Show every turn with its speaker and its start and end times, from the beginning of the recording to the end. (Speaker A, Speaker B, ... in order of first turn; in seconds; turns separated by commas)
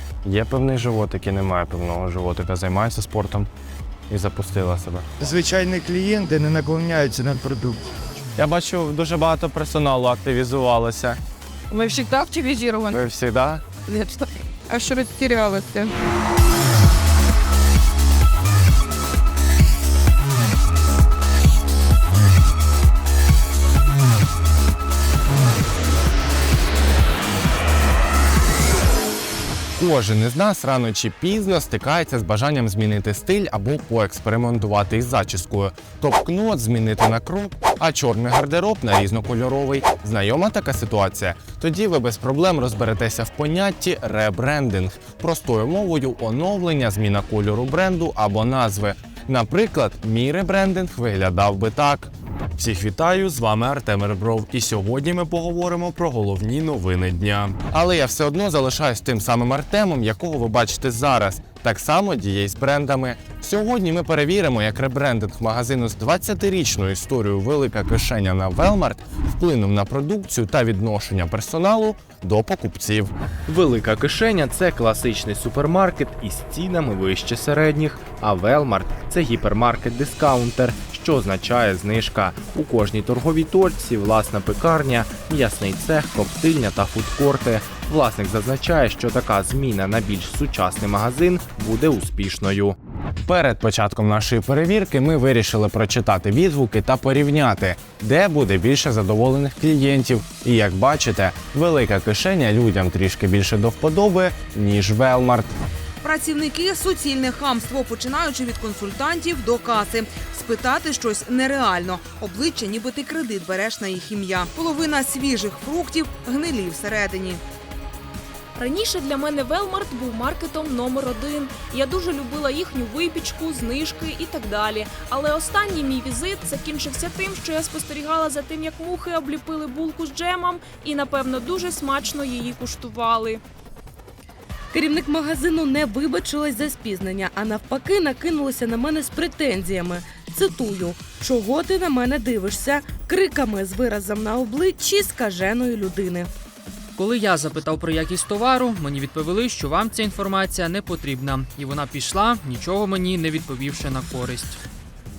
Speaker A: 0.2-3.5, Speaker A: 4.1-5.0, Speaker B: 5.2-7.8, Speaker A: 8.4-11.2, Speaker C: 11.7-12.9, Speaker A: 12.9-13.6, Speaker C: 13.8-15.9, Speaker A: 29.7-73.1, Speaker D: 73.5-92.8, Speaker A: 93.2-105.5, Speaker E: 106.0-117.4, Speaker F: 118.5-133.4, Speaker G: 134.7-146.3, Speaker H: 146.9-154.6